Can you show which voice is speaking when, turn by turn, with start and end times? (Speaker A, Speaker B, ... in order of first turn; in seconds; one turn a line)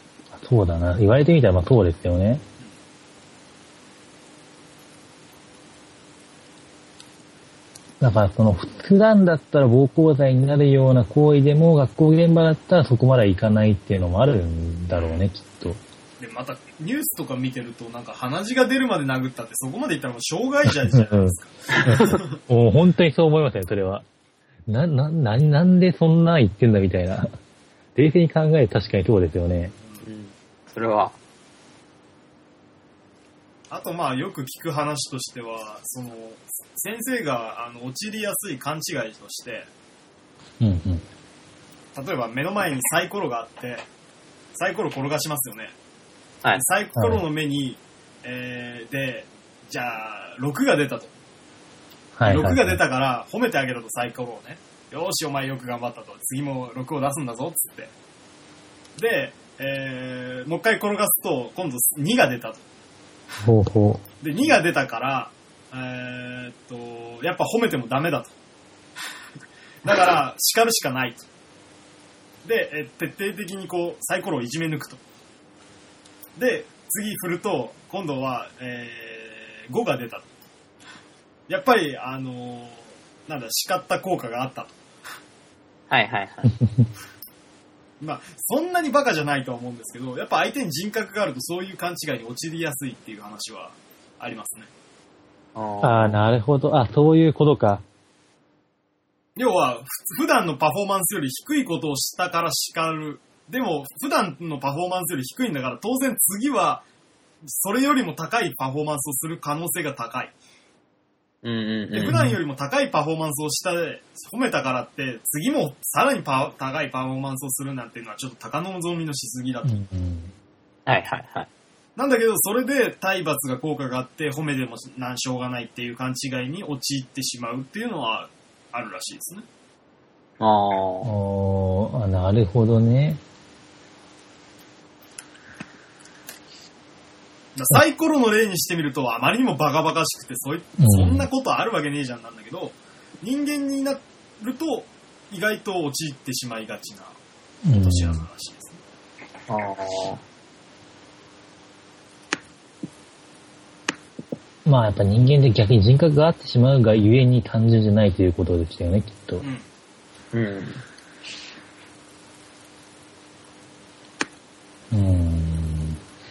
Speaker A: 0.3-2.4
Speaker A: 8.0-15.8
Speaker B: 14.9-15.2
Speaker B: 16.2-22.4
Speaker A: 20.6-24.1
Speaker C: 21.7-22.2
Speaker A: 24.7-27.3
Speaker A: 27.9-29.7
Speaker C: 30.0-31.1
Speaker B: 33.7-39.7
Speaker A: 40.6-41.0
Speaker B: 41.9-43.8
Speaker B: 44.5-45.7
Speaker B: 46.5-51.1
Speaker A: 47.0-47.2
Speaker A: 52.1-52.8
Speaker B: 52.2-57.9
Speaker B: 59.0-62.6
Speaker A: 63.4-64.0
Speaker B: 64.2-68.3
Speaker B: 69.8-71.2
Speaker B: 72.4-75.0
Speaker B: 76.3-80.3
Speaker B: 81.5-84.8
Speaker C: 85.9-86.5
Speaker B: 88.0-94.7
Speaker C: 95.5-96.2
Speaker A: 95.8-97.8
Speaker B: 99.3-106.8
Speaker B: 107.4-110.3
Speaker C: 111.4-112.2
Speaker B: 111.9-119.7
Speaker A: 112.1-112.4
Speaker A: 119.6-120.3
Speaker C: 120.9-121.5
Speaker B: 122.0-129.4
Speaker C: 130.4-131.1
Speaker A: 131.0-133.2
Speaker B: 137.5-147.2
Speaker A: 140.8-141.3
Speaker A: 147.6-148.2
Speaker B: 147.8-148.8
Speaker C: 149.5-150.2
Speaker A: 154.6-159.4
Speaker B: 159.4-159.7
Speaker C: 160.3-160.8
Speaker A: 164.9-166.0